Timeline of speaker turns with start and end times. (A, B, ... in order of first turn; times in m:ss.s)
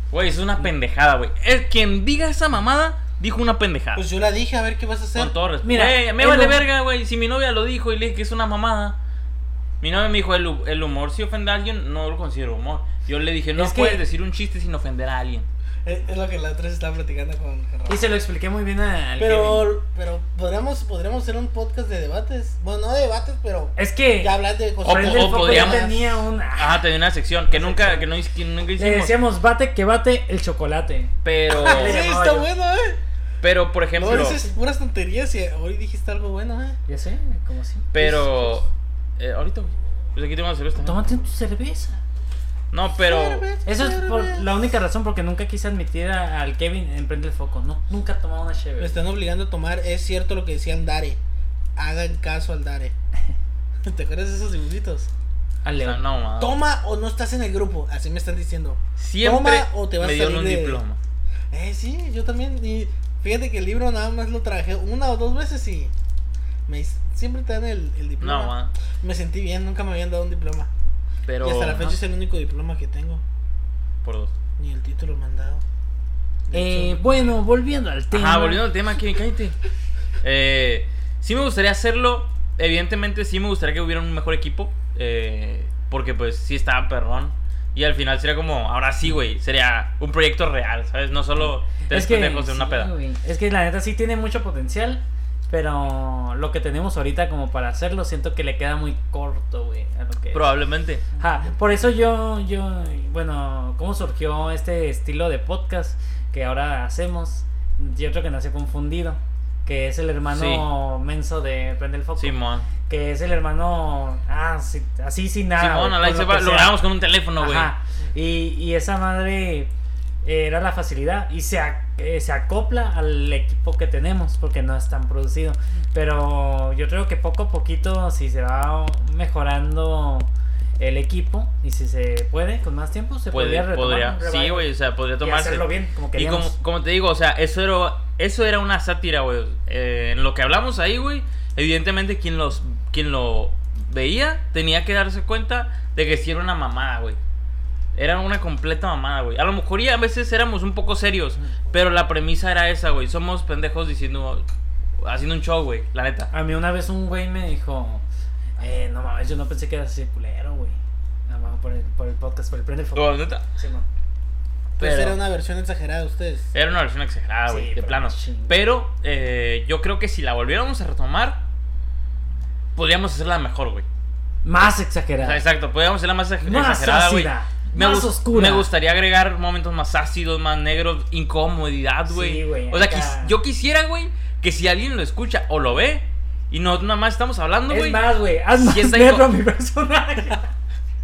0:00.1-0:04.0 A
0:03.9-0:05.3 B
0:05.2-0:09.0 A
0:05.6-0:06.6 C
0:09.8-0:15.5 A
0:13.6-0:14.0 C
0:15.8-0:18.1 B
0:17.9-0:19.7 C
0:19.2-0:26.2 B
0:23.8-0:26.8 C
0:24.8-0:25.9 A
0:26.6-0:29.2 A
0:27.5-0:28.1 C
0:28.8-0:32.5 C
0:31.2-0:32.0 A
0:31.5-0:33.0 B
0:33.4-0:34.4 A
0:33.9-0:36.8 B
0:34.0-0:34.5 C
0:36.9-0:37.9 C
0:37.9-0:38.7 A
0:38.0-0:38.6 B
0:39.2-0:41.0 A
0:40.8-0:42.0 C
0:42.7-0:43.4 A
0:43.0-0:44.5 B
0:43.6-0:49.0 C
0:48.8-0:51.2 B
0:51.8-0:52.9 B
0:53.8-0:55.1 B
0:55.6-0:56.0 C
0:55.8-0:56.6 A
0:56.4-1:00.8 B
0:59.0-1:01.0 A
1:01.5-1:05.9 B
1:06.7-1:10.7 B
1:08.2-1:08.7 A
1:11.3-1:12.0 A
1:11.4-1:13.2 B
1:14.0-1:14.3 A
1:14.6-1:15.6 B
1:16.5-1:17.4 B
1:16.5-1:18.6 C
1:18.1-1:19.6 A
1:20.2-1:32.9 A
1:31.4-1:40.5 C
1:40.3-1:41.1 A
1:41.2-1:52.4 C
1:50.3-1:50.6 A
1:52.2-1:52.7 A
1:52.9-1:56.8 C
1:55.6-1:57.7 A
1:57.4-1:59.7 C
2:00.2-2:10.3 C
2:10.8-2:14.7 C
2:13.3-2:27.2 A
2:15.2-2:16.6 C
2:27.9-2:34.4 A
2:35.0-2:36.3 A
2:36.3-2:38.0 C
2:38.6-2:43.9 C
2:42.9-2:43.4 A
2:44.8-2:46.5 B
2:44.8-2:45.2 A
2:46.5-2:51.4 A
2:47.5-2:48.6 C
2:52.8-2:53.9 A
2:54.4-2:55.4 C
2:55.2-3:08.0 A
2:56.4-2:58.7 C
3:02.1-3:03.3 C
3:07.7-3:10.5 C
3:08.6-3:09.3 A